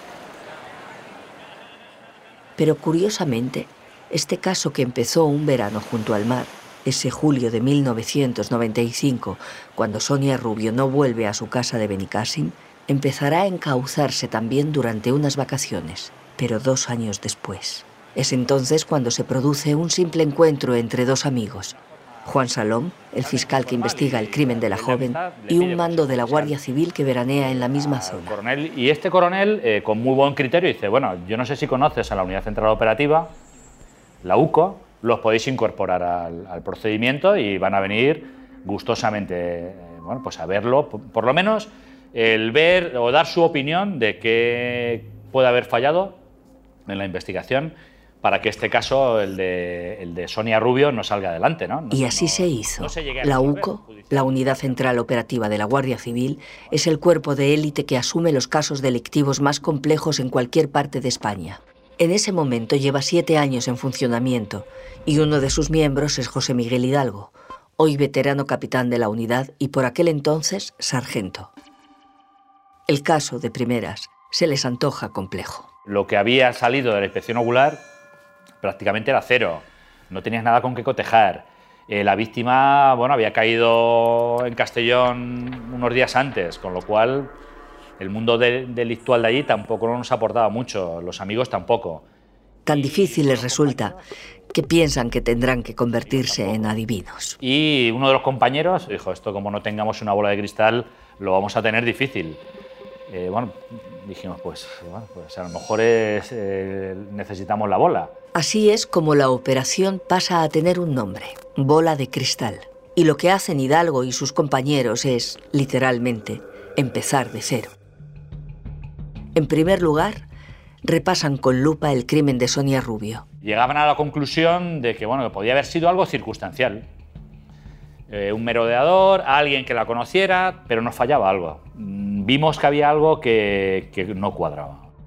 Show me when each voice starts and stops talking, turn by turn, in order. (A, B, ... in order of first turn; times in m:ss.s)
0:02.6-0:28.4 A
0:23.2-0:26.6 B
0:27.4-0:33.4 B
0:34.2-0:46.2 B
0:46.8-0:55.0 B
0:51.9-1:11.5 A
1:12.9-1:15.7 A
1:15.8-1:17.8 B
1:18.6-1:27.3 B
1:28.0-1:32.0 B
1:32.6-1:34.0 A
1:32.7-1:34.0 B
1:34.5-1:37.4 A
1:36.0-1:36.7 B
1:37.4-1:42.4 B
1:43.1-1:48.1 B
1:48.3-1:57.7 A
1:59.3-2:00.2 A
2:00.8-2:03.2 A
2:03.4-2:06.9 B
2:08.1-2:14.9 B